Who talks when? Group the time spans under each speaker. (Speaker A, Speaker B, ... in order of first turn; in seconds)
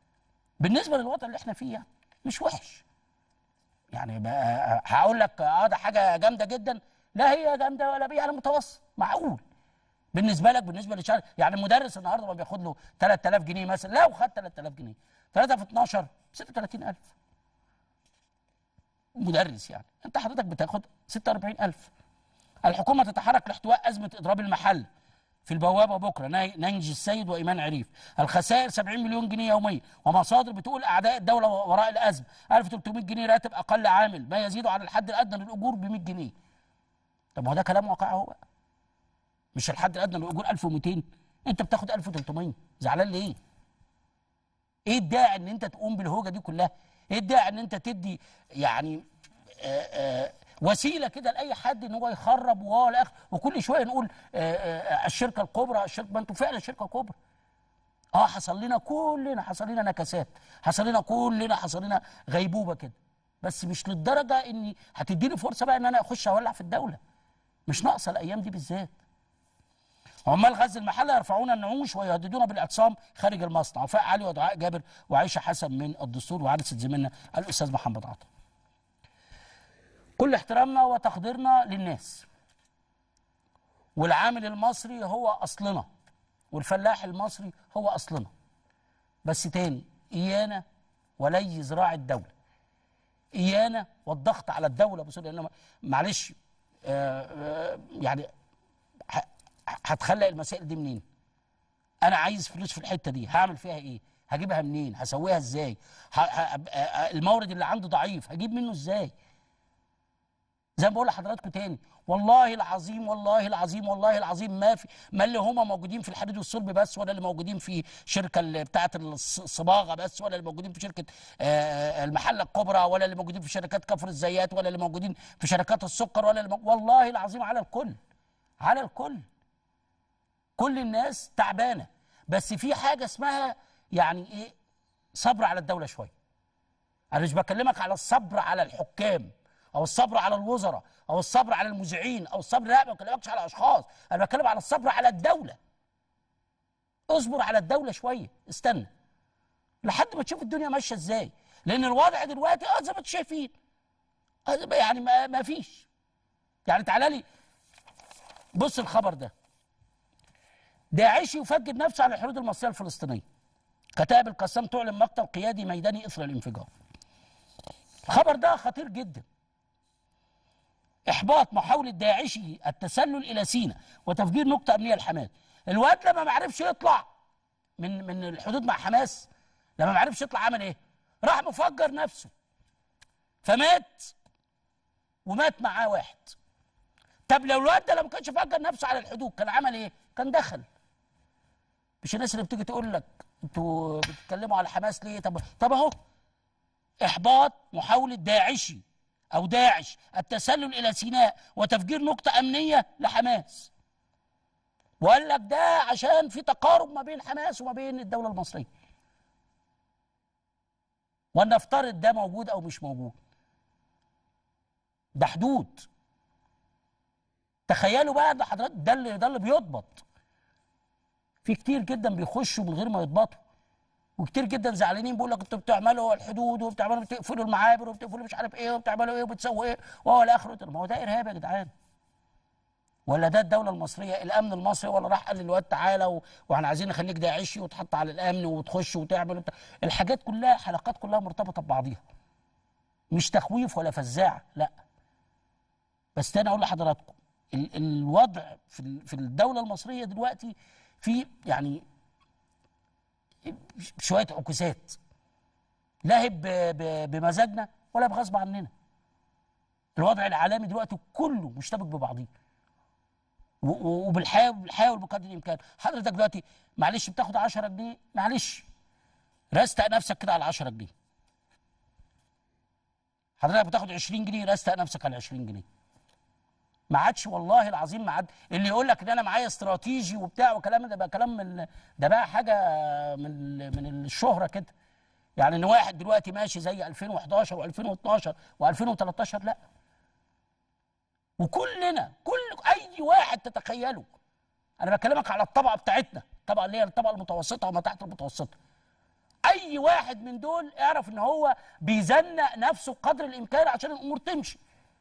Speaker A: 0.6-2.8, 3.9-9.4, 10.1-17.1, 19.1-21.9, 22.6-24.9, 25.4-36.3, 37.3-38.4, 39.5-43.4, 44.9-49.0, 49.6-57.1, 58.1-67.0, 67.7-68.9, 70.2-78.3, 80.2-82.3, 84.0-85.9, 86.5-88.3, 89.2-90.6, 91.2-92.3, 93.3-98.3, 99.1-101.0, 102.0-109.1, 110.8-128.0, 128.6-129.2, 130.6-134.5, 135.1-136.1, 137.1-145.6, 147.1-148.9, 149.8-153.5, 154.5-155.9, 156.7-157.2, 158.5-159.3, 160.9-163.2, 164.0-166.7, 168.1-169.2, 171.1-177.1, 177.8-182.3, 183.4-184.1, 185.2-186.3, 187.3-190.7, 192.0-195.9, 197.0-203.7, 205.0-208.7, 211.3-213.1, 215.2-215.9, 217.7-220.0, 221.4-223.4, 224.2-231.7, 233.1-242.0, 243.1-244.7, 246.2-251.8, 253.4-255.0, 256.0-258.7, 260.0-262.3, 263.6-268.6, 269.5-270.9, 273.4-275.6, 276.9-284.7, 285.4-289.6, 291.4-294.1, 294.8-298.5, 299.4-304.6